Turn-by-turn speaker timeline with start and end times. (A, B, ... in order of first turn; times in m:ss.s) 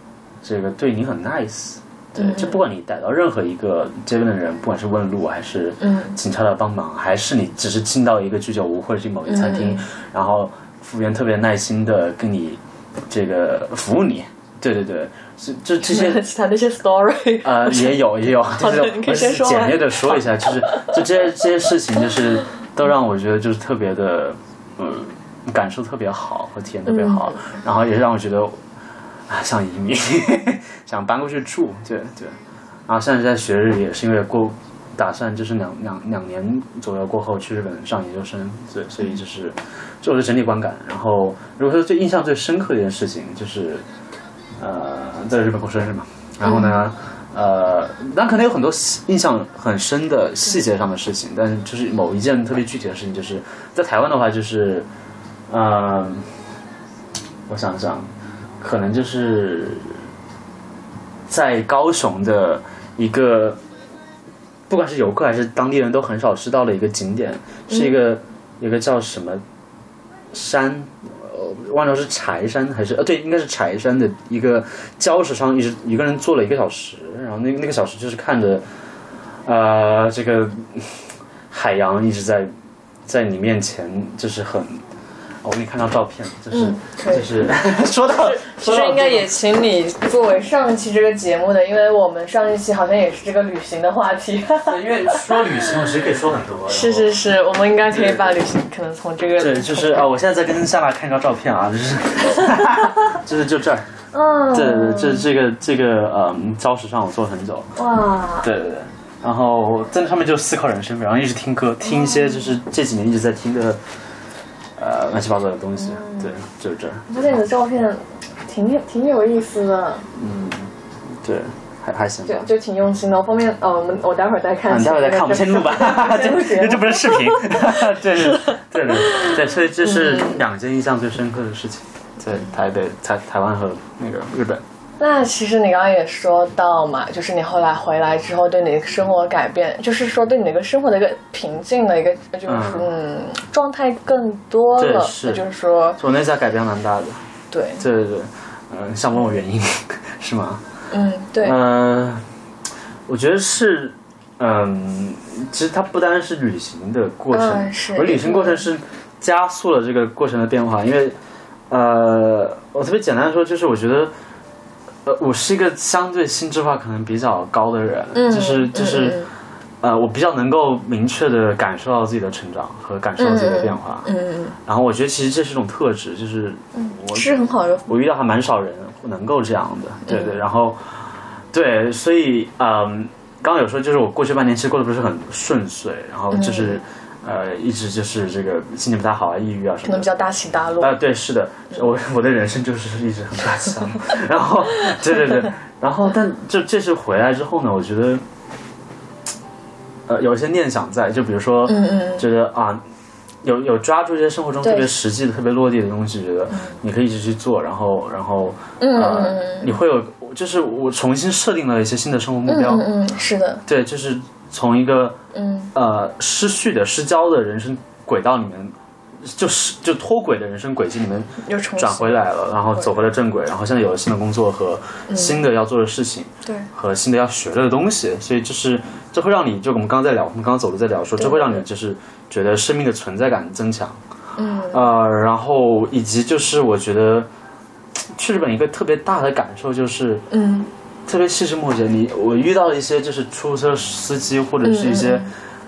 0:00.4-0:16.2 A
0:02.2-0:02.6 B
0:05.8-0:06.2 B
0:09.3-0:09.8 B
0:15.8-0:18.0 B
0:17.4-0:28.6 A
0:18.5-0:21.0 B
0:26.9-0:27.4 B
0:29.3-0:43.8 A
0:44.6-0:54.9 A
0:46.4-0:46.8 B
0:55.5-0:56.3 A
0:57.5-0:58.1 A
0:58.6-1:00.0 A
1:01.3-1:03.6 A
1:04.7-1:09.4 A
1:10.3-1:18.6 A
1:19.4-1:22.5 A
1:23.1-1:24.8 A
1:25.4-1:29.4 A
1:26.5-1:27.4 B
1:28.2-1:35.5 B
1:34.6-1:37.2 A
1:36.7-1:40.0 B
1:37.9-1:38.3 A
1:39.4-1:43.9 A
1:44.1-1:45.3 B
1:44.5-1:47.7 A
1:47.8-1:48.5 B
1:48.4-1:53.8 A
1:51.9-1:52.4 B
1:54.8-1:57.4 A
1:55.8-1:56.3 B
1:57.1-2:00.1 B
2:00.2-2:02.5 A
2:02.2-2:09.3 B
2:04.7-2:14.6 A
2:09.9-2:10.4 B
2:15.0-2:26.0 B
2:22.5-2:22.9 A
2:24.8-2:25.4 A
2:26.0-2:27.2 A
2:27.5-2:27.8 B
2:27.8-2:30.6 A
2:30.9-2:31.6 B
2:31.4-2:32.2 A
2:33.1-2:41.2 A
2:37.3-2:38.6 B
2:41.7-2:44.1 A
2:45.0-2:49.2 A
2:48.1-2:49.3 B
2:49.8-2:54.1 A
2:53.2-2:54.6 B
2:54.6-3:10.2 A
2:56.8-2:57.9 B
3:00.1-3:00.4 B
3:06.3-3:06.8 B
3:09.8-3:11.0 B
3:10.8-3:18.2 A
3:20.1-3:22.8 A
3:21.7-3:22.3 B
3:23.4-3:32.9 A
3:24.6-3:24.9 B
3:28.8-3:29.7 B
3:32.5-3:33.6 B
3:33.7-3:35.2 A
3:35.3-3:35.7 B
3:35.7-3:54.0 A
3:41.4-3:42.2 B
3:42.8-3:43.1 B
3:45.1-3:45.4 B
3:51.2-3:51.6 B
3:54.4-3:54.9 B
3:54.7-3:57.3 A
3:58.1-4:00.2 A
4:00.3-4:00.7 B
4:01.1-4:05.3 A
4:04.6-4:05.3 B